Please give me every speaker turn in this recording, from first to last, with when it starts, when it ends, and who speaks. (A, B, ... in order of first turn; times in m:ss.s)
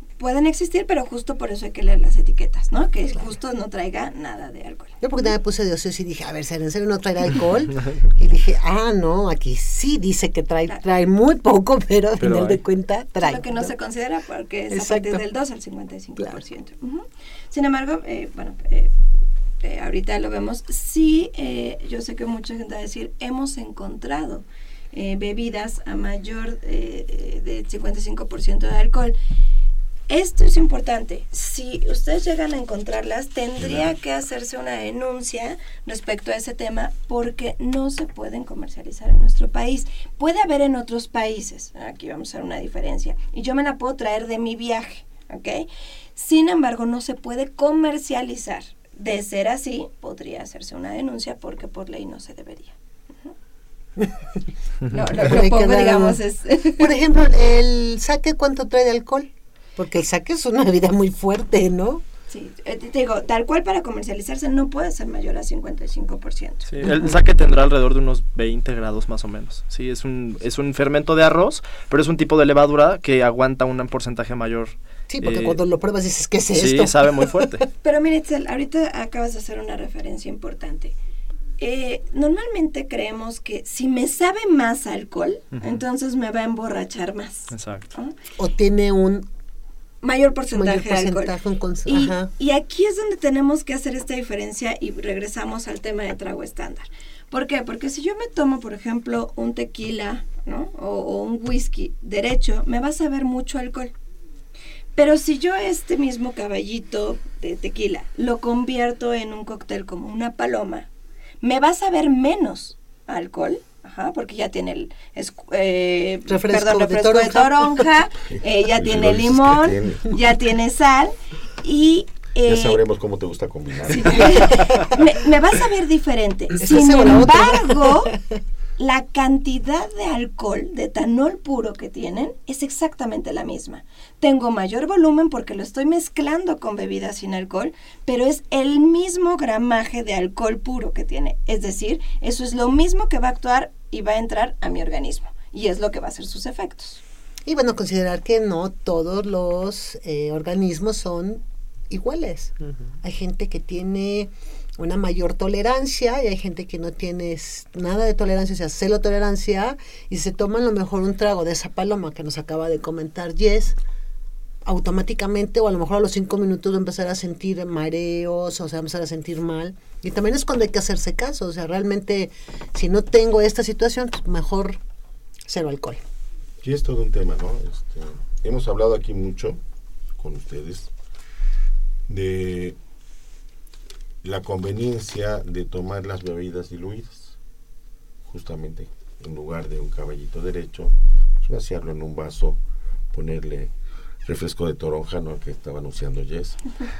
0:00.2-0:05.0 A
0:05.0-0:13.7 B
0:12.2-0:12.6 C
0:13.2-0:18.9 A
0:14.7-0:15.2 B
0:16.2-0:16.4 B
0:19.6-0:29.2 A
0:30.1-0:53.3 A
0:33.6-0:33.9 D
0:54.0-0:54.4 B
0:54.9-0:56.9 A
0:54.9-1:02.0 B
1:02.3-1:06.7 A
1:06.6-1:15.6 C
1:06.8-1:07.2 B
1:15.1-1:17.7 B
1:16.5-1:17.6 C
1:17.8-1:20.9 A
1:21.6-1:28.1 A
1:25.5-1:25.8 C
1:27.5-1:27.9 C
1:28.4-1:29.3 B
1:30.0-1:31.3 A
1:30.5-1:32.3 B
1:31.8-1:43.9 A
1:44.9-1:50.9 A
1:51.4-2:02.8 A
1:56.3-1:57.9 B
1:58.3-2:00.1 D
2:02.4-2:04.6 D
2:03.9-2:08.1 A
2:04.3-2:04.8 B
2:06.6-2:08.2 B
2:08.8-2:27.0 A
2:27.4-2:43.8 B
2:32.6-2:32.9 C
2:44.6-2:54.8 B
2:55.5-2:56.0 B
2:56.6-2:59.6 D
3:00.2-3:00.9 D
3:02.1-3:02.8 D
3:04.2-3:07.4 D
3:08.3-3:12.6 D
3:13.1-3:13.7 D
3:14.2-3:16.6 D